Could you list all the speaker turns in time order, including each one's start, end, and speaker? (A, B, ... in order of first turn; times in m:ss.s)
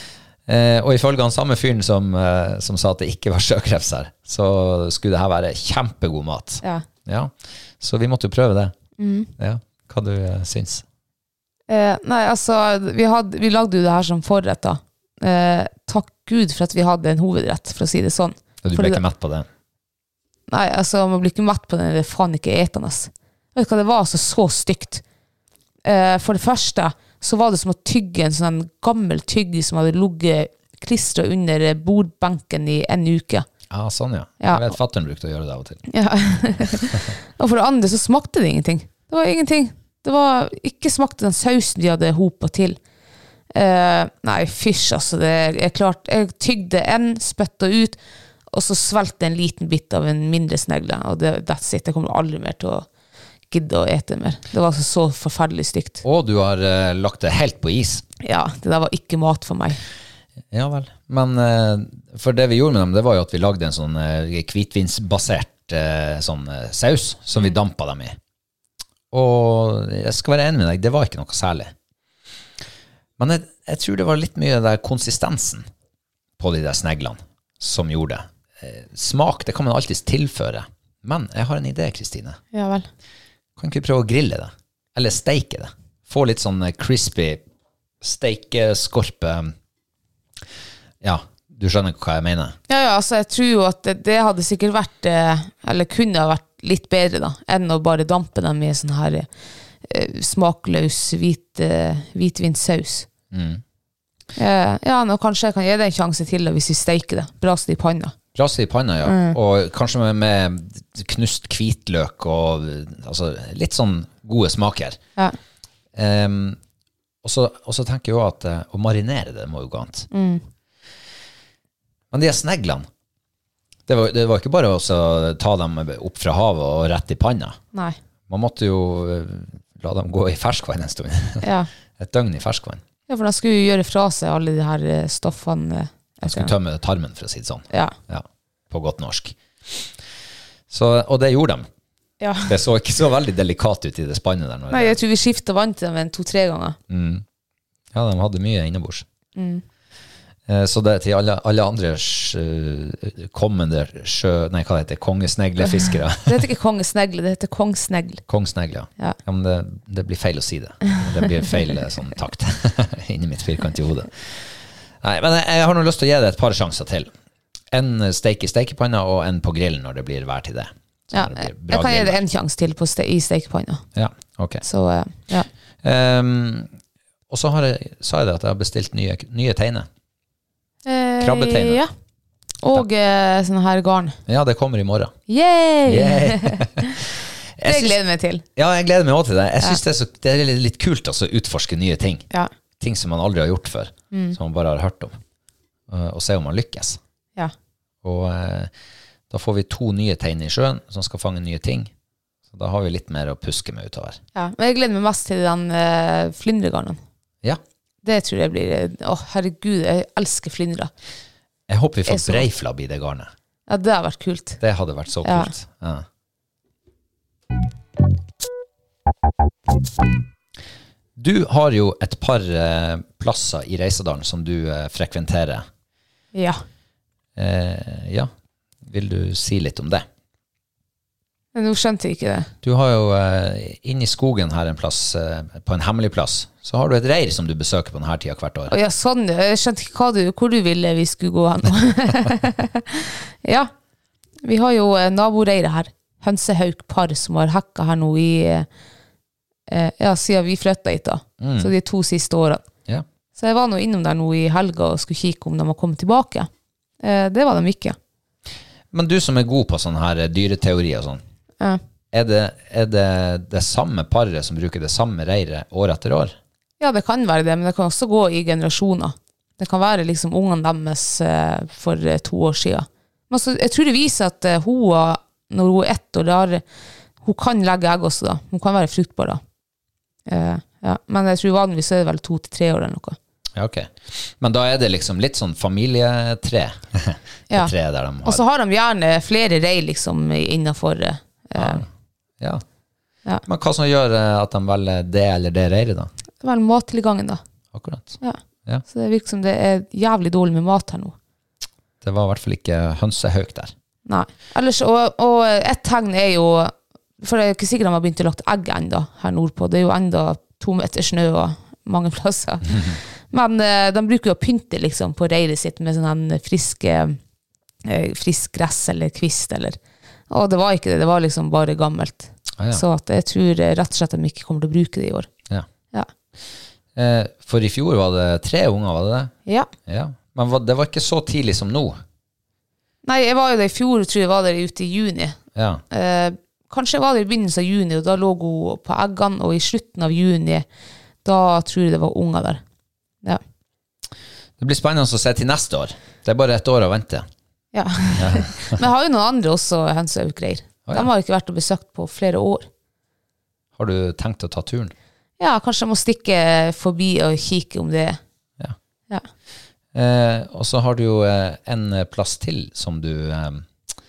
0:00.4-0:08.7 A
0:09.0-0:09.3 B
0:09.4-0:10.8 A
0:11.7-0:19.0 B
0:18.6-0:19.5 A
0:20.5-0:25.0 B
0:25.8-0:33.5 B
0:33.7-0:35.9 A
0:34.4-0:34.7 B
0:35.9-0:42.8 B
0:36.6-0:37.0 A
0:43.5-0:48.0 B
0:48.5-0:52.9 B
0:53.5-0:56.0 B
0:56.0-0:58.0 A
0:58.2-0:59.8 B
1:00.5-1:08.2 A
1:09.1-1:11.7 A
1:13.2-1:15.6 A
1:16.4-1:22.4 A
1:22.5-1:22.9 B
1:23.6-1:27.4 A
1:28.0-1:29.5 A
1:31.0-1:32.6 A
1:32.7-1:39.3 B
1:39.8-1:43.1 B
1:43.3-1:43.6 A
1:44.4-1:48.1 B
1:48.3-1:55.0 A
1:49.0-1:49.4 B
1:55.9-1:56.6 A
1:57.2-2:00.1 A
2:00.1-2:00.4 B
2:02.1-2:02.9 A
2:03.9-2:07.6 A
2:08.3-2:11.5 A
2:11.4-2:11.7 B
2:12.0-2:12.8 A
2:13.1-2:16.5 B
2:16.2-2:19.9 A
2:20.7-2:21.7 A
2:22.2-2:22.5 B
2:22.4-2:25.0 A
2:24.7-2:26.8 B
2:26.9-2:27.2 A
2:27.9-2:29.0 A
2:29.4-2:29.6 B
2:30.5-2:36.4 A
2:36.2-2:38.2 B
2:38.3-2:44.5 A
2:45.0-2:47.1 A
2:47.7-2:52.2 A
2:51.1-2:53.8 B
2:53.9-2:54.6 A
2:54.6-2:55.5 B
2:55.8-2:56.7 A
2:57.3-2:59.9 A
3:00.8-3:01.9 B
3:01.2-3:01.8 A
3:02.6-3:04.2 B
3:04.3-3:05.1 A
3:05.3-3:07.0 B
3:05.8-3:07.0 A
3:07.6-3:08.0 A
3:07.6-3:08.4 B
3:08.6-3:12.2 A
3:12.8-3:15.2 A
3:15.9-3:17.0 A
3:18.0-3:18.7 A
3:19.3-3:21.9 A
3:22.5-3:24.2 A
3:24.3-3:27.0 B
3:28.0-3:30.9 B
3:31.7-3:33.3 A
3:32.1-3:32.4 B
3:33.7-3:34.6 B
3:34.6-3:36.0 A
3:35.2-3:35.5 B
3:41.2-3:45.6 A
3:46.3-3:46.6 B
3:47.4-3:48.3 A
3:48.8-3:50.0 A
3:51.5-3:52.5 B
3:52.6-3:58.7 A
3:58.7-4:03.7 B
4:04.4-4:08.7 B
4:09.7-4:12.6 B
4:11.4-4:11.7 A
4:13.4-4:16.5 B
4:17.0-4:18.0 B
4:18.9-4:21.2 A
4:22.1-4:26.4 A
4:26.8-4:36.6 B
4:37.2-4:39.4 B
4:40.3-4:43.2 B
4:43.5-4:48.4 A
4:48.2-4:51.8 B
4:51.6-4:51.9 A
4:53.4-4:56.1 A
4:56.4-4:57.4 B
4:57.7-4:58.8 A
4:58.2-5:01.1 B
5:02.0-5:03.7 A
5:04.0-5:17.2 B
5:17.8-5:19.8 B
5:20.3-5:25.3 B
5:22.6-5:22.8 A
5:26.9-5:29.3 A
5:29.9-5:32.0 A
5:33.0-5:35.4 B
5:35.5-5:35.8 A
5:35.9-5:40.6 B
5:41.2-5:42.6 B
5:44.6-5:47.2 A
5:47.7-5:52.7 B
5:48.2-5:48.8 A
5:53.7-5:54.9 A
5:55.4-5:58.2 B
5:59.9-6:03.7 A